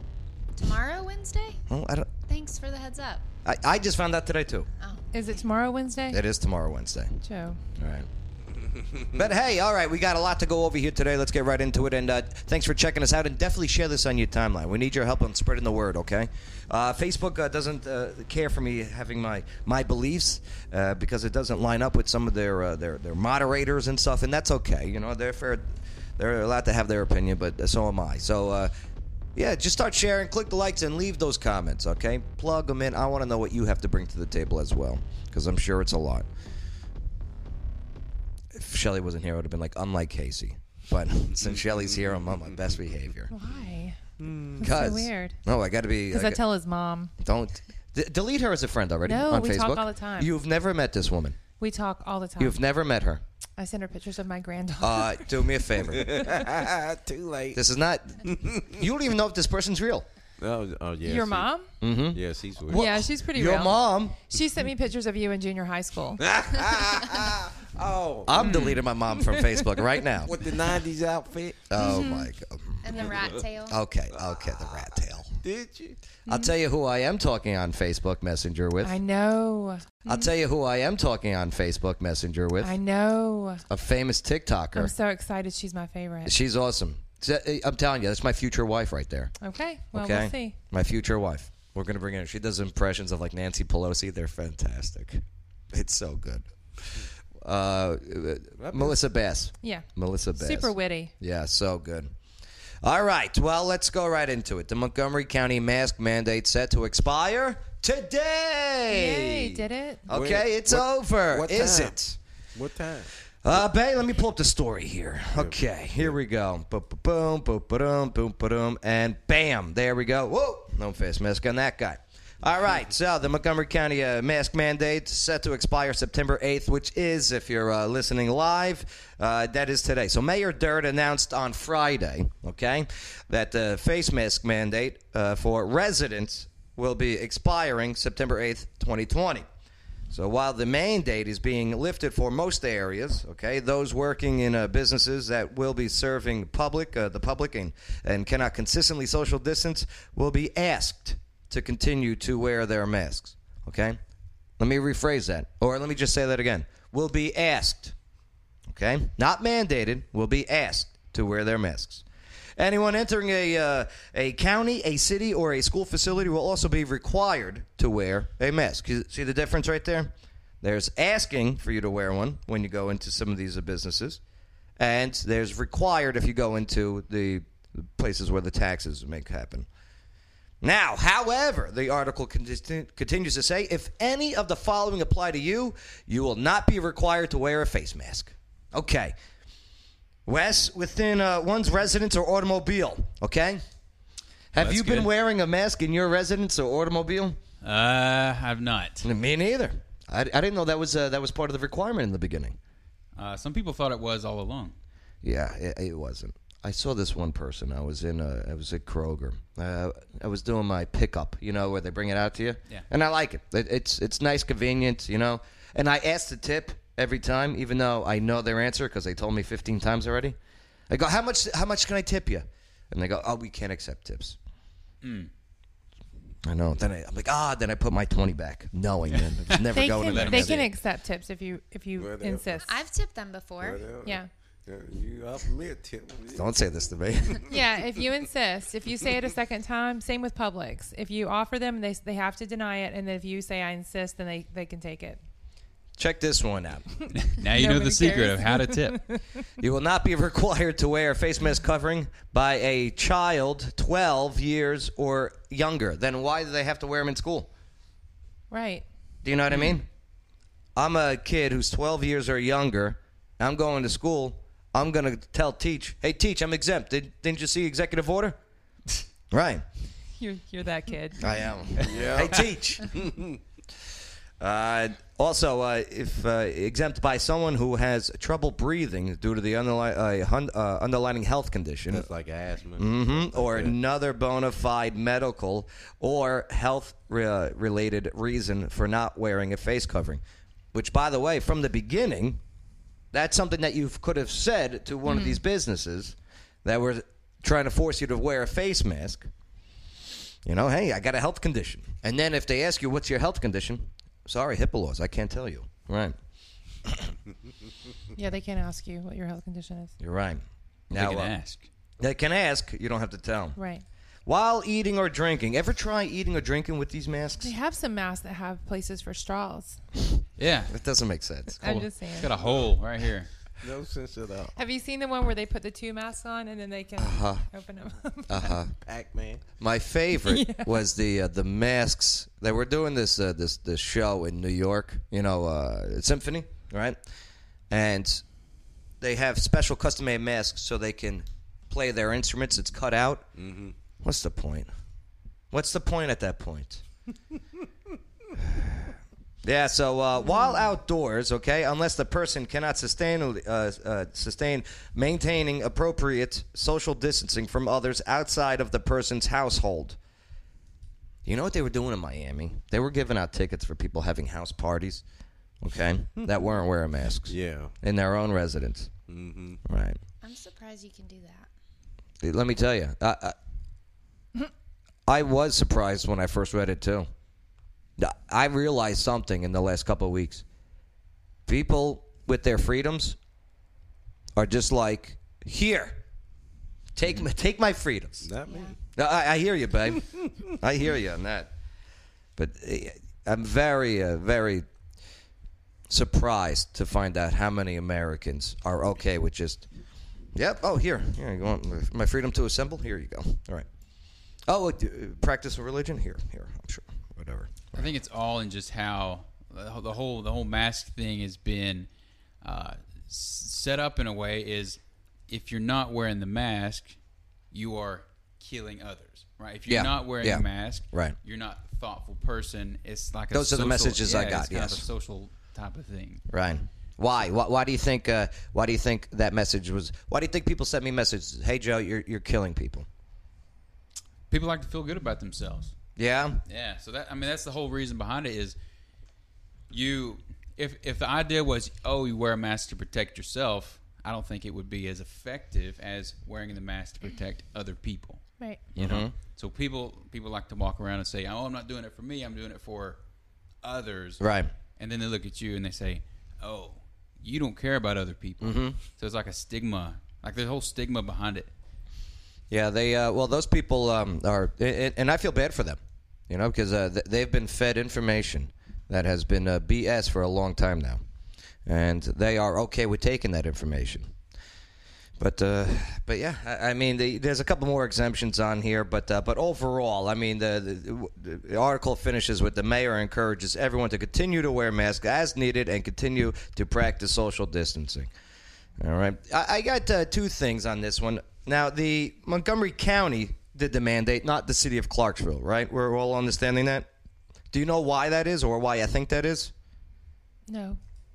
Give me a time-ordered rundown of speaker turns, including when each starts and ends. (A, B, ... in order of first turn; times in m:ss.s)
0:00.6-0:01.6 A
0:01.7-0:02.1 B
0:02.3-0:03.2 A
0:03.4-0:04.7 B
0:05.1-0:06.2 C
0:06.1-0:07.2 B
0:07.2-0:07.6 C
0:07.8-0:08.1 B
0:08.7-0:09.2 D
0:09.1-0:25.7 B
0:26.2-0:28.7 B
0:29.4-0:36.3 B
0:38.5-0:43.3 B
0:43.3-0:44.0 C
0:44.2-0:44.7 D
0:44.6-0:45.4 C
0:44.6-0:46.4 B
0:46.1-0:47.1 C
0:47.2-0:51.4 B
0:49.0-0:50.3 C
0:51.6-0:52.6 C
0:52.4-0:53.2 B
0:53.6-0:55.4 C
0:54.8-0:56.3 B
0:55.8-0:57.6 D
0:57.5-1:00.0 B
0:58.2-0:58.7 D
1:00.4-1:01.5 D
1:01.0-1:01.7 C
1:01.8-1:04.2 B
1:02.1-1:02.8 D
1:02.7-1:06.2 C
1:06.2-1:08.4 D
1:08.2-1:10.4 B
1:08.4-1:08.8 E
1:10.2-1:11.7 D
1:11.7-1:12.8 B
1:11.8-1:12.3 C
1:12.8-1:13.8 A
1:12.9-1:13.4 D
1:13.7-1:15.4 B
1:15.4-1:16.0 D
1:16.3-1:19.0 B
1:16.3-1:16.5 C
1:18.8-1:20.3 C
1:20.0-1:22.7 B
1:22.6-1:23.6 C
1:23.7-1:24.9 B
1:24.7-1:26.3 C
1:26.2-1:29.3 B
1:29.4-1:30.6 C
1:29.9-1:35.2 B
1:35.7-1:36.5 B
1:37.4-1:42.1 B
1:38.6-1:39.0 D
1:39.6-1:41.1 C
1:42.8-1:52.2 B
1:48.9-1:50.1 C
1:50.1-1:52.0 D
1:52.5-1:53.1 D
1:53.4-2:19.4 B
1:55.4-1:56.2 D
2:20.1-2:34.0 B
2:34.6-2:37.9 B
2:38.7-2:42.0 B
2:42.6-2:54.2 B
2:54.8-2:59.7 B
3:00.6-3:09.1 B
3:10.2-3:13.6 B
3:14.5-3:17.4 B
3:14.6-3:15.1 E
3:17.6-3:19.0 E
3:19.0-3:22.6 B
3:23.2-3:24.7 E
3:25.2-3:40.4 B
3:40.9-3:44.4 B
3:45.0-3:45.3 E
3:46.4-3:50.6 B
3:49.5-3:50.7 E
3:49.7-3:52.6 C
3:52.0-3:52.6 D
3:52.6-3:53.9 A
3:53.6-3:56.5 D
3:54.0-3:54.3 C
3:56.3-3:57.4 B
3:57.5-4:05.2 C
4:06.0-4:06.9 B
4:07.1-4:09.2 C
4:07.1-4:09.0 E
4:09.6-4:17.5 B
4:18.5-4:18.8 C
4:19.2-4:19.8 B
4:19.5-4:19.8 E
4:20.8-4:28.4 B
4:29.3-4:29.6 B
4:30.2-4:31.5 C
4:31.2-4:32.9 B
4:31.8-4:33.4 D
4:34.4-4:42.0 B
4:41.9-4:43.8 D
4:42.8-4:50.2 B
4:50.7-4:52.4 B
4:53.1-4:59.3 B
4:55.0-4:55.4 C
5:00.4-5:06.2 B
5:06.8-5:07.1 B
5:08.1-5:09.9 C
5:10.0-5:11.3 B
5:10.9-5:11.7 E
5:12.0-5:13.6 B
5:13.6-5:13.8 C
5:14.2-5:17.5 B
5:17.4-5:19.8 C
5:20.4-5:20.7 E
5:20.7-5:21.8 B
5:21.6-5:22.3 C
5:22.2-5:23.3 E
5:22.4-5:22.7 D
5:23.6-5:24.5 D
5:24.6-5:28.4 C
5:27.0-5:27.4 B
5:28.3-5:28.7 B
5:28.8-5:29.4 D
5:29.6-5:37.0 B
5:30.2-5:30.7 C
5:37.7-5:38.2 B
5:39.0-5:43.2 B
5:43.4-5:43.7 D
5:44.0-5:44.7 B
5:45.5-5:46.8 B
5:48.5-5:48.8 B
5:49.4-6:00.0 B
5:50.2-5:50.7 C
6:01.2-6:05.0 B
6:05.6-6:08.9 B
6:06.2-6:06.5 D
6:07.2-6:07.7 D
6:09.1-6:09.6 D
6:09.6-6:10.0 B
6:10.2-6:11.5 A
6:12.2-6:13.4 B
6:15.1-6:17.1 B
6:18.0-6:20.4 B
6:21.5-6:23.2 B
6:24.4-6:26.0 B
6:27.0-6:28.3 B
6:28.2-6:28.7 D
6:28.5-6:28.7 A
6:28.9-6:31.5 B
6:32.4-6:34.6 B
6:35.9-6:39.6 B
6:40.3-6:43.6 B
6:44.5-6:47.8 B
6:47.7-6:51.9 E
6:52.4-6:57.0 E
6:57.5-7:06.2 E
6:59.7-7:01.2 B
7:03.3-7:04.8 B
7:06.3-7:12.8 B
7:14.3-7:15.7 E
7:16.0-7:16.4 B
7:16.4-7:18.5 E
7:19.7-7:28.2 E
7:28.7-7:33.0 E
7:28.8-7:29.1 B
7:33.6-7:34.2 E
7:34.2-7:34.5 B
7:34.8-7:41.5 E
7:38.4-7:38.8 B
7:42.5-7:51.0 B
7:51.6-7:54.1 B
7:55.2-8:08.1 B
8:08.8-8:16.9 B
8:17.5-8:19.5 B
8:20.5-8:20.8 C